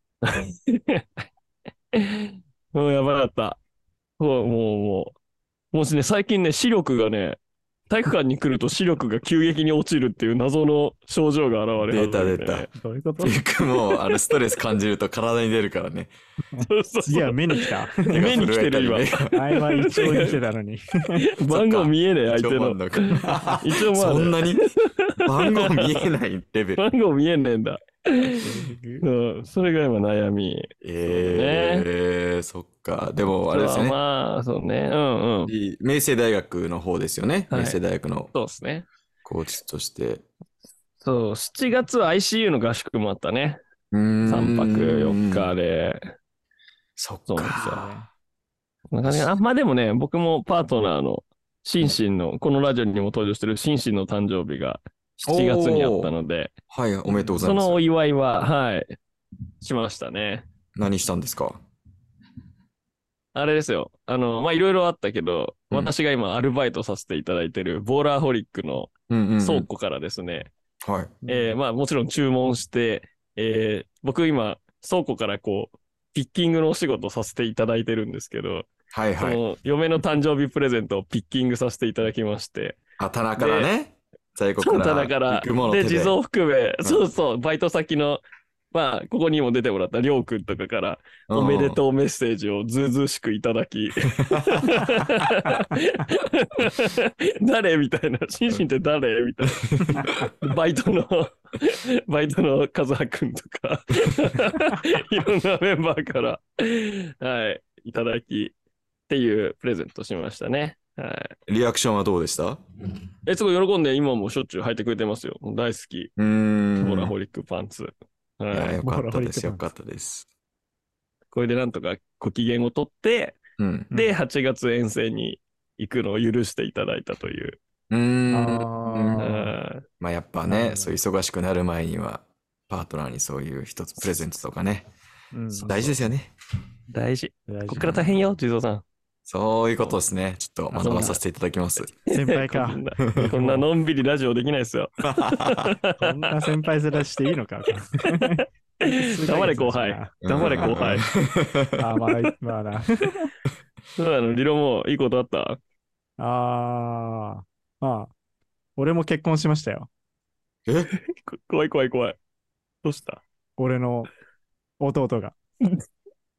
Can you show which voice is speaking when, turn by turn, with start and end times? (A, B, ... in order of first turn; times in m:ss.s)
0:00.2-0:01.0 A
0:01.9-0:03.6 A
0:04.2-0:05.2 A
0:05.7-0:12.7 A
0:11.9-0:12.7 B
0:12.8-0:13.4 C
0:13.2-0:16.1 B
0:13.8-0:14.2 A
0:16.5-0:18.3 C
0:16.6-0:20.4 A
0:18.1-0:19.3 B
0:19.3-0:21.2 C
0:21.2-0:26.0 A
0:21.5-0:26.8 B
0:23.3-0:23.6 C
0:26.8-0:28.4 A
0:28.4-0:29.0 C
0:29.0-0:31.9 A
0:30.8-0:34.0 B
0:33.5-0:35.5 A
0:35.5-0:38.3 B
0:37.5-0:37.8 A
0:38.3-0:38.9 A
0:39.2-0:40.2 B
0:41.0-0:43.6 A
0:43.9-0:45.5 B
0:44.2-0:46.1 A
0:47.0-0:47.9 B
0:47.3-0:47.9 A
0:47.5-0:48.1 C
0:48.9-0:56.5 A
0:55.2-0:56.1 B
0:56.7-0:57.8 B
0:57.4-0:58.9 A
0:59.6-1:00.5 A
1:00.8-1:01.6 B
1:03.3-1:10.5 A
1:09.1-1:09.7 B
1:10.8-1:11.2 B
1:11.2-1:11.5 C
1:11.3-1:18.7 A
1:18.9-1:19.4 B
1:19.2-1:22.8 A
1:23.0-1:26.2 B
1:23.4-1:23.7 A
1:24.6-1:48.5 A
1:31.3-1:31.8 B
1:34.0-1:34.8 B
1:39.6-1:40.3 B
1:49.1-1:51.3 A
1:51.5-1:52.6 B
1:53.2-1:56.1 A
1:56.2-1:57.1 B
1:56.8-1:58.8 A
1:58.5-2:00.3 B
1:58.8-1:59.7 C
2:01.3-2:03.4 A
2:03.6-2:03.9 B
2:03.9-2:07.6 A
2:07.9-2:09.3 B
2:08.3-2:09.5 C
2:09.2-2:09.8 A
2:10.0-2:14.8 B
2:10.5-2:11.0 C
2:15.3-2:16.1 C
2:15.6-2:16.3 B
2:16.9-2:18.8 A
2:17.5-2:18.0 C
2:19.3-2:21.9 B
2:20.7-2:21.2 C
2:20.8-2:21.2 A
2:22.1-2:23.6 C
2:22.1-2:26.4 A
2:25.0-2:25.7 B
2:26.0-2:30.6 C
2:28.1-2:31.0 A
2:30.2-2:31.9 B
2:31.8-2:33.3 C
2:34.0-2:35.6 A
2:36.2-2:38.1 C
2:38.8-2:39.9 C
2:40.6-2:40.9 B
2:41.0-2:42.2 A
2:42.8-2:43.2 A
2:43.6-2:44.1 C
2:44.8-2:45.4 C